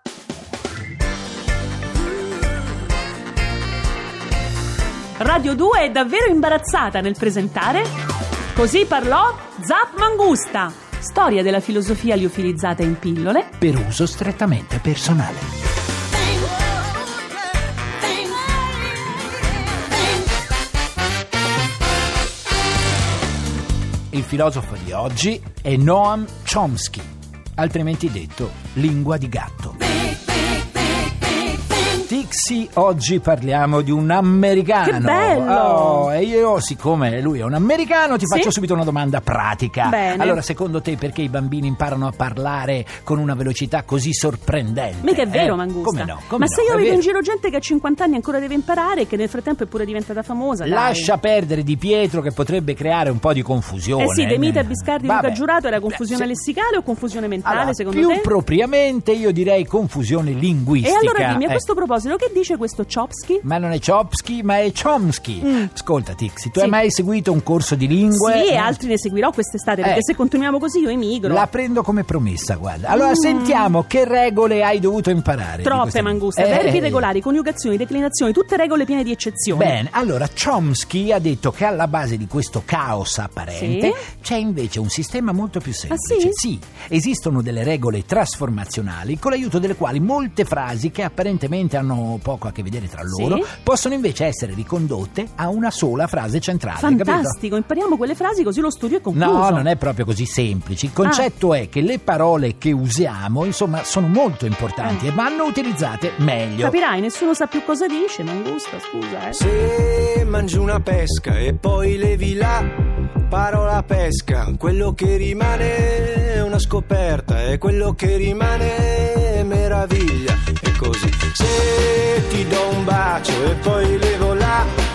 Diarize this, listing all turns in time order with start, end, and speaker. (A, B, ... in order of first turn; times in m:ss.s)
0:05.2-0:07.9 A
0:08.5-0:13.5 A
0:13.6-0:15.5 B
0:24.1-0:29.9 B
0:31.9-0:47.0 B
0:34.8-0:36.1 A
0:38.2-0:38.5 A
0:39.8-0:40.4 A
0:45.0-0:51.1 A
0:50.6-0:56.3 B
0:54.0-0:58.3 A
0:57.4-1:01.6 B
1:00.8-1:03.4 A
1:03.4-1:08.8 B
1:05.4-1:05.7 A
1:08.1-1:11.5 A
1:09.8-1:10.1 B
1:11.2-1:17.1 B
1:12.9-1:13.7 A
1:15.6-1:19.8 A
1:19.5-1:37.4 B
1:23.5-1:24.0 A
1:25.9-1:26.4 A
1:33.0-1:33.5 A
1:36.8-1:39.7 A
1:39.1-1:46.8 B
1:46.6-1:49.4 A
1:49.3-2:04.7 C